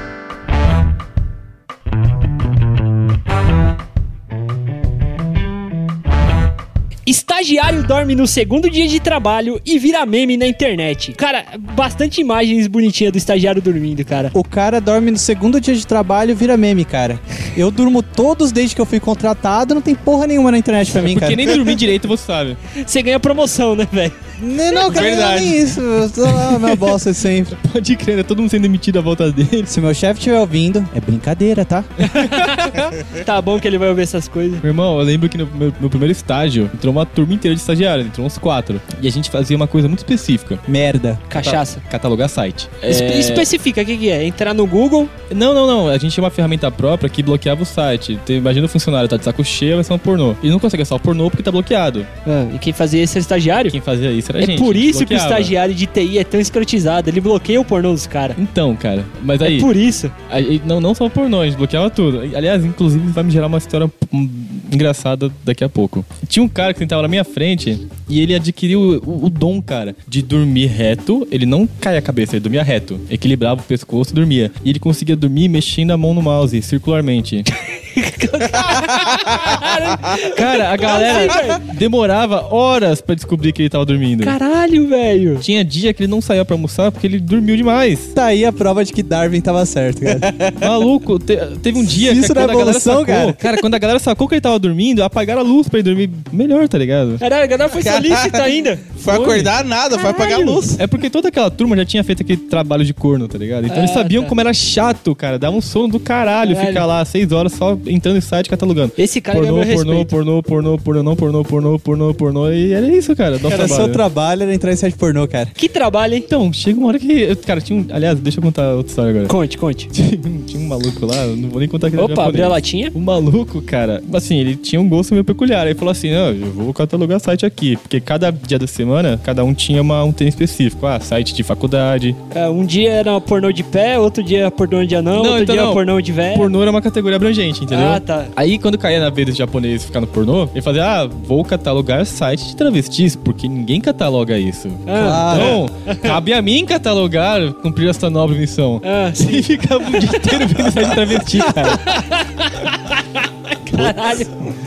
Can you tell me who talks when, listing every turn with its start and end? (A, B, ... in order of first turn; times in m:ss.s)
0:07.1-0:14.3 A
0:14.3-0:21.7 B
0:20.9-0:22.6 C
0:22.8-0:24.2 A
0:24.4-0:27.6 B
0:24.9-0:25.8 D
0:27.6-0:29.7 C
0:29.7-0:31.9 B
0:32.0-0:32.6 C
0:32.0-0:34.6 A
0:34.6-0:40.6 C
0:40.7-0:41.2 B
0:41.3-0:41.8 A
0:41.4-0:43.5 C
0:42.9-0:45.1 A
0:45.3-0:52.1 C
0:52.2-0:53.8 A
0:53.7-0:55.5 C
0:54.4-0:58.4 A
0:58.4-0:59.7 C
0:59.4-1:00.1 A
1:00.3-1:17.5 C
1:17.7-1:21.6 A
1:20.2-1:24.4 C
1:24.2-1:25.4 A
1:25.4-1:28.1 C
1:28.1-1:30.3 B
1:30.1-1:30.7 D
1:30.6-1:37.2 C
1:31.8-1:33.4 B
1:37.2-1:39.5 A
1:37.7-1:40.8 D
1:40.2-1:54.0 C
1:43.7-1:44.4 A
1:46.5-1:46.9 A
1:49.0-1:50.1 A
1:53.5-1:55.5 B
1:55.6-1:56.3 A
1:56.3-1:59.3 C
1:59.3-1:59.9 A
1:59.9-2:12.2 C
2:02.0-2:02.9 A
2:12.3-2:16.5 A
2:15.1-2:32.0 C
2:17.7-2:18.3 A
2:24.9-2:26.2 A
2:25.0-2:25.6 B
2:28.8-2:30.6 A
2:31.4-2:34.4 A
2:33.7-2:34.1 C